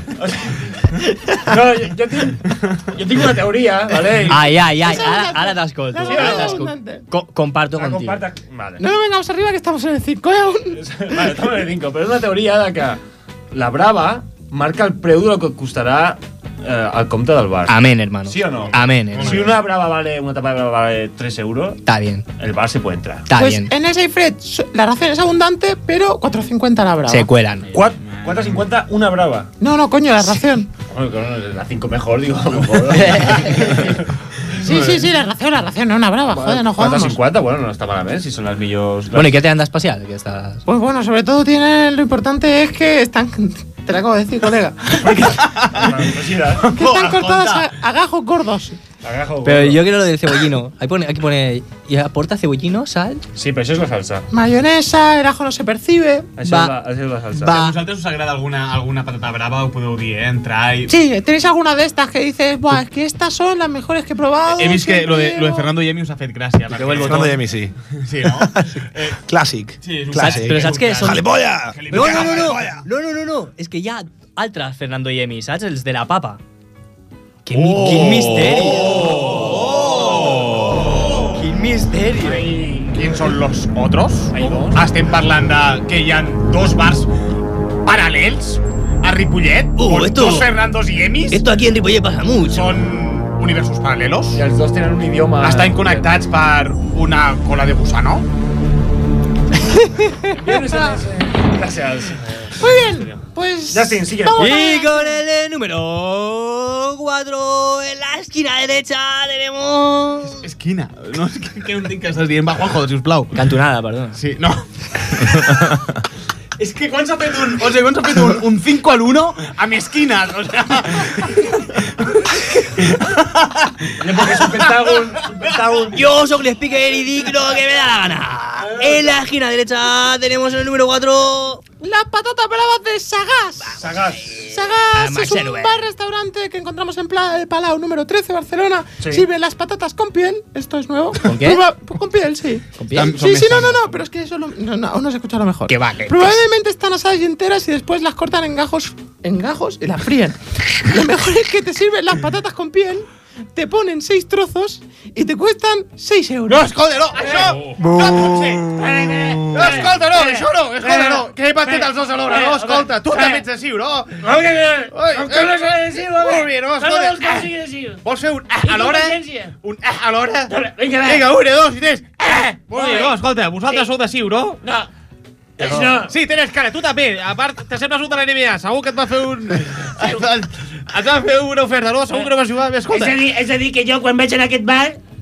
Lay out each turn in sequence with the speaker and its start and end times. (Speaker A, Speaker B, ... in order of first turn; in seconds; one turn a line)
Speaker A: 0.2-0.6
Speaker A: 1.4-4.5
Speaker B: 4.3-8.2
Speaker C: 4.8-7.0
Speaker A: 6.0-6.6
Speaker A: 7.7-8.8
Speaker C: 8.8-10.8
Speaker A: 10.7-13.0
Speaker A: 13.5-17.7
Speaker B: 17.7-19.5
Speaker A: 18.2-21.8
Speaker D: 18.7-19.5
Speaker B: 21.8-22.2
Speaker A: 22.4-23.3
Speaker B: 23.3-23.7
Speaker C: 23.3-27.3
Speaker B: 27.1-27.7
Speaker A: 27.7-29.5
Speaker C: 29.6-30.7
Speaker A: 30.9-34.0
Speaker B: 33.1-33.4
Speaker A: 34.6-35.1
Speaker C: 34.6-37.1
Speaker A: 36.3-39.3
Speaker B: 39.1-40.6
Speaker C: 40.7-45.4
Speaker D: 45.1-46.1
Speaker A: 45.7-46.7
Speaker D: 46.6-47.7
Speaker C: 46.7-48.8
Speaker A: 49.0-49.8
Speaker B: 49.4-53.2
Speaker A: 53.4-54.2
Speaker C: 54.3-56.3
Speaker A: 56.4-57.5
Speaker B: 56.4-56.7
Speaker B: 57.4-57.7
Speaker D: 57.4-60.9
Speaker C: 60.9-65.7
Speaker D: 64.5-67.4
Speaker E: 66.7-67.7
Speaker D: 68.0-69.2
Speaker E: 68.2-72.7
Speaker D: 69.8-72.7
Speaker B: 70.2-71.3
Speaker B: 71.9-76.4
Speaker B: 77.5-79.2
Speaker D: 78.3-78.8
Speaker B: 81.3-82.5
Speaker A: 82.2-83.3
Speaker D: 82.9-87.1
Speaker A: 84.3-84.9
Speaker D: 87.8-91.4
Speaker B: 89.8-90.5
Speaker B: 91.3-92.7
Speaker D: 92.5-94.4
Speaker A: 94.3-96.1
Speaker D: 95.4-98.3
Speaker C: 99.7-100.2
Speaker A: 100.3-104.6
Speaker C: 102.6-105.2
Speaker B: 104.4-110.4
Speaker D: 110.4-113.3
Speaker B: 113.3-114.2
Speaker D: 114.1-115.5
Speaker D: 116.6-121.9
Speaker D: 123.0-125.4
Speaker A: 124.0-126.0
Speaker B: 125.9-131.6
Speaker C: 131.8-133.8
Speaker B: 133.6-135.9
Speaker A: 133.8-134.2
Speaker C: 134.4-156.6
Speaker A: 139.0-139.3
Speaker B: 141.2-141.6
Speaker B: 142.8-143.2
Speaker D: 142.9-143.8
Speaker B: 145.7-146.4
Speaker D: 156.5-158.7
Speaker F: 157.1-157.6
Speaker F: 158.7-163.4
Speaker D: 159.5-164.3
Speaker F: 164.2-168.0
Speaker D: 164.9-167.5
Speaker D: 168.0-172.0
Speaker F: 168.6-169.5
Speaker F: 170.5-171.3
Speaker F: 172.2-173.2
Speaker D: 172.7-174.6
Speaker F: 174.6-174.9
Speaker A: 175.6-176.0
Speaker D: 175.6-183.2
Speaker F: 175.6-176.1
Speaker F: 182.9-185.0